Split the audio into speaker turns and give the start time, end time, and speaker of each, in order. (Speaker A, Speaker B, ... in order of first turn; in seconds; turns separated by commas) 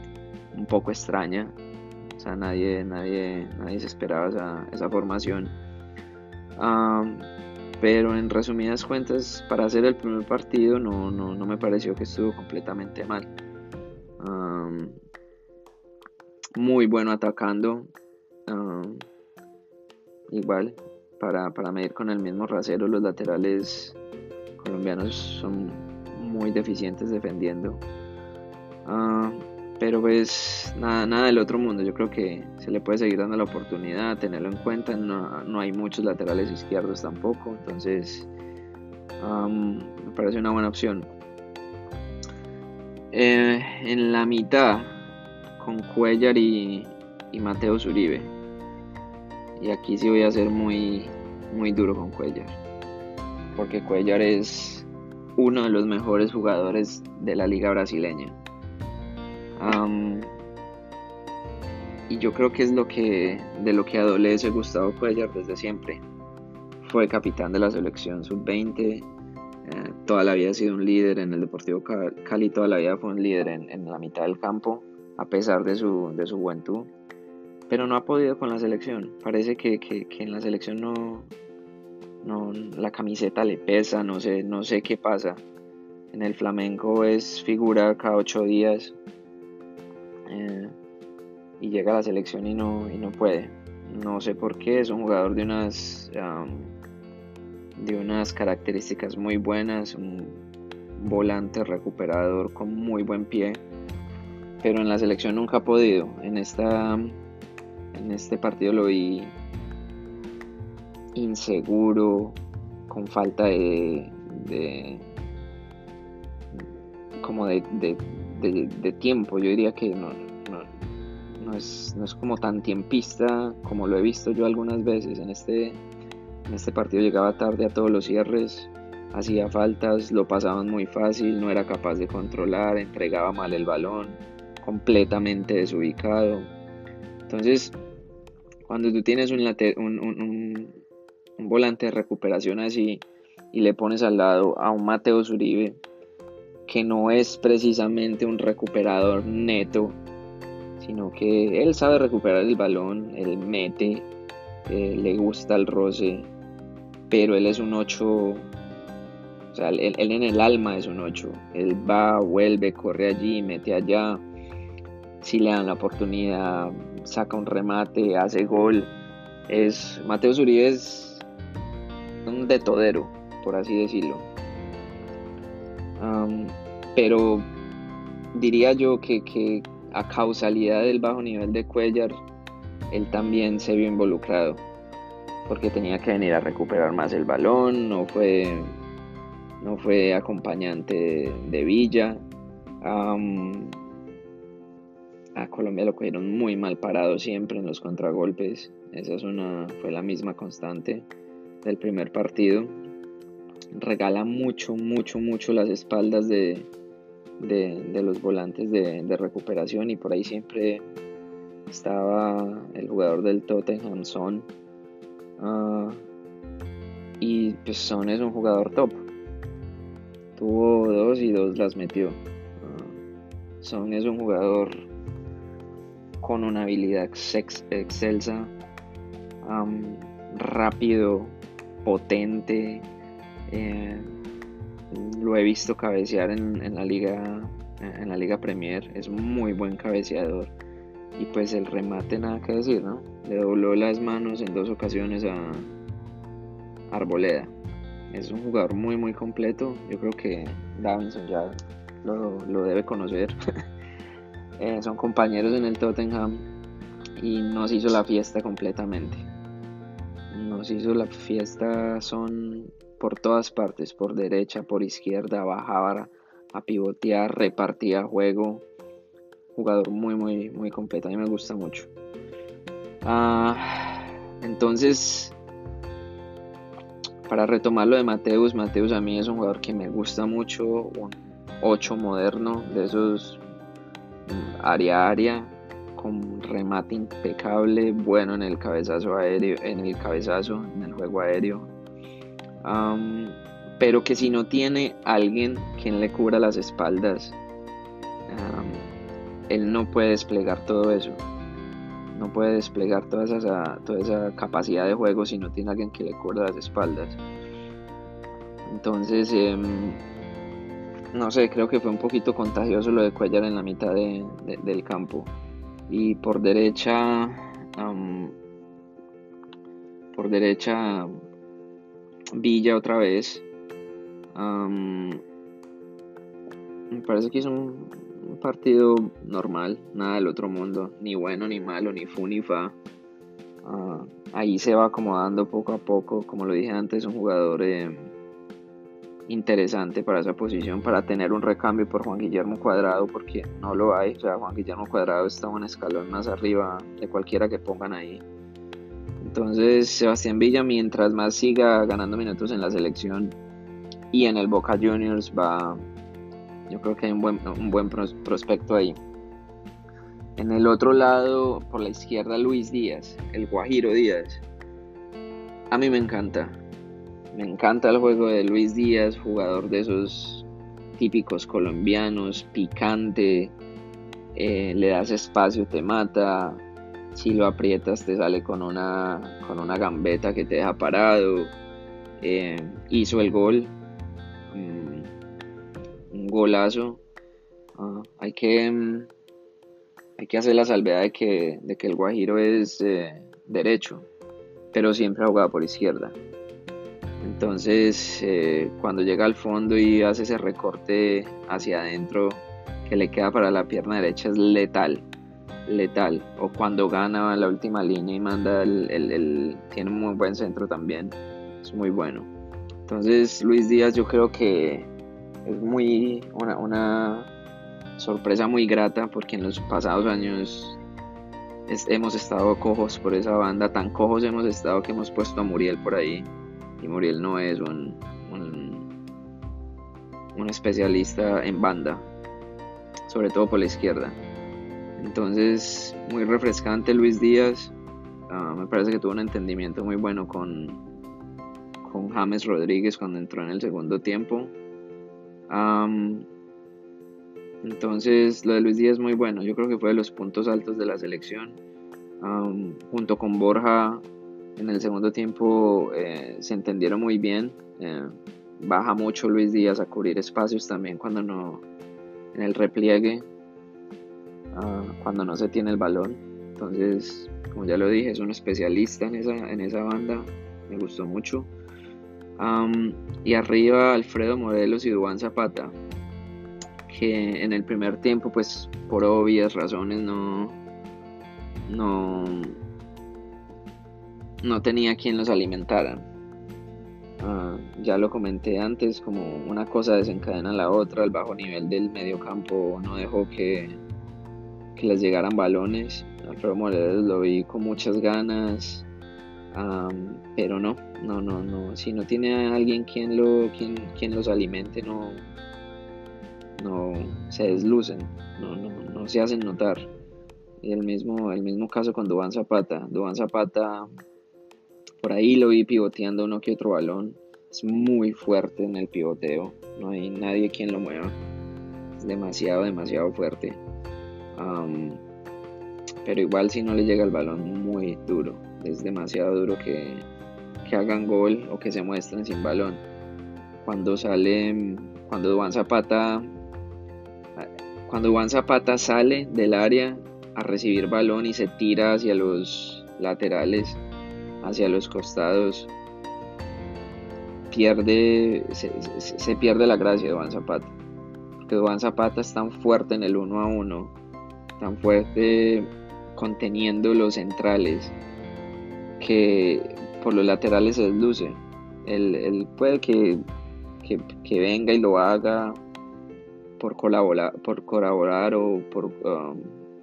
Speaker A: 0.5-1.6, Speaker A: 2.2-5.5, Speaker A: 6.5-13.3, Speaker A: 14.2-15.0, Speaker A: 16.5-17.9, Speaker A: 18.5-19.1, Speaker A: 20.3-24.0, Speaker A: 24.6-27.8, Speaker A: 28.9-38.3, Speaker A: 39.2-41.1, Speaker A: 43.1-45.0, Speaker A: 45.6-48.3, Speaker A: 49.6-52.6, Speaker A: 53.5-58.4, Speaker A: 59.6-60.3, Speaker A: 62.1-66.0, Speaker A: 66.8-69.1, Speaker A: 69.6-76.9, Speaker A: 77.7-81.3, Speaker A: 82.2-85.4, Speaker A: 86.1-88.9, Speaker A: 90.3-90.7, Speaker A: 91.6-96.7, Speaker A: 97.8-100.4, Speaker A: 101.0-103.6, Speaker A: 104.6-107.2, Speaker A: 107.9-109.3, Speaker A: 111.1-115.1, Speaker A: 117.2-120.7, Speaker A: 121.4-125.8, Speaker A: 126.5-136.5, Speaker A: 137.3-137.8, Speaker A: 138.7-140.8, Speaker A: 141.4-145.8, Speaker A: 146.7-150.0, Speaker A: 150.8-154.1, Speaker A: 154.7-156.3, Speaker A: 157.1-158.5, Speaker A: 159.5-164.2, Speaker A: 165.2-168.9, Speaker A: 169.5-171.2, Speaker A: 172.2-174.3, Speaker A: 176.0-177.5, Speaker A: 178.3-182.2, Speaker A: 182.9-184.6, Speaker A: 185.4-188.7, Speaker A: 189.6-192.2, Speaker A: 192.8-193.8, Speaker A: 195.3-201.1, Speaker A: 201.6-202.7, Speaker A: 203.7-206.7, Speaker A: 207.4-210.8, Speaker A: 211.7-214.5, Speaker A: 215.4-216.0, Speaker A: 217.2-219.1, Speaker A: 220.3-222.9, Speaker A: 223.6-224.8, Speaker A: 226.2-228.5, Speaker A: 229.4-232.8, Speaker A: 233.5-234.1, Speaker A: 234.9-240.5, Speaker A: 241.2-245.7, Speaker A: 246.9-247.5, Speaker A: 248.1-253.3, Speaker A: 254.6-256.4, Speaker A: 257.2-259.2, Speaker A: 260.3-268.6, Speaker A: 269.5-271.9, Speaker A: 273.0-275.4, Speaker A: 277.2-283.4, Speaker A: 284.2-291.7, Speaker A: 292.6-297.4, Speaker A: 298.3-298.9, Speaker A: 299.5-301.2, Speaker A: 302.1-307.2, Speaker A: 308.6-310.0, Speaker A: 311.1-315.3, Speaker A: 315.9-318.4, Speaker A: 320.1-321.1, Speaker A: 322.3-323.4, Speaker A: 324.3-325.2, Speaker A: 326.9-332.8, Speaker A: 333.6-338.1, Speaker A: 339.3-348.2, Speaker A: 349.2-353.4, Speaker A: 354.1-355.8, Speaker A: 356.7-359.0, Speaker A: 360.4-364.4, Speaker A: 365.7-366.6, Speaker A: 367.3-373.5, Speaker A: 374.3-381.5, Speaker A: 382.2-383.7, Speaker A: 384.5-385.1, Speaker A: 386.1-387.0, Speaker A: 387.8-389.1, Speaker A: 390.2-394.1, Speaker A: 394.7-396.2, Speaker A: 397.2-405.1, Speaker A: 405.6-412.3, Speaker A: 412.9-414.9, Speaker A: 415.4-417.3, Speaker A: 418.0-420.8, Speaker A: 421.7-428.9, Speaker A: 430.3-432.0, Speaker A: 433.1-434.2, Speaker A: 435.0-437.7, Speaker A: 438.3-440.8, Speaker A: 441.8-444.5, Speaker A: 445.5-446.2, Speaker A: 447.6-451.6, Speaker A: 452.2-454.0, Speaker A: 454.6-461.6, Speaker A: 462.3-463.2, Speaker A: 464.5-471.5, Speaker A: 472.4-475.8, Speaker A: 476.9-480.6, Speaker A: 481.7-482.6, Speaker A: 484.4-486.1, Speaker A: 487.2-493.8, Speaker A: 494.7-498.9, Speaker A: 499.5-505.2, Speaker A: 506.6-509.9, Speaker A: 510.6-513.9, Speaker A: 515.0-521.1, Speaker A: 522.0-523.6, Speaker A: 524.3-525.0, Speaker A: 526.0-530.1, Speaker A: 530.6-532.8, Speaker A: 533.6-536.2, Speaker A: 537.4-543.8, Speaker A: 544.4-545.7, Speaker A: 547.5-550.7, Speaker A: 551.4-553.9, Speaker A: 554.6-557.9, Speaker A: 559.0-563.2, Speaker A: 563.8-565.6, Speaker A: 566.6-569.6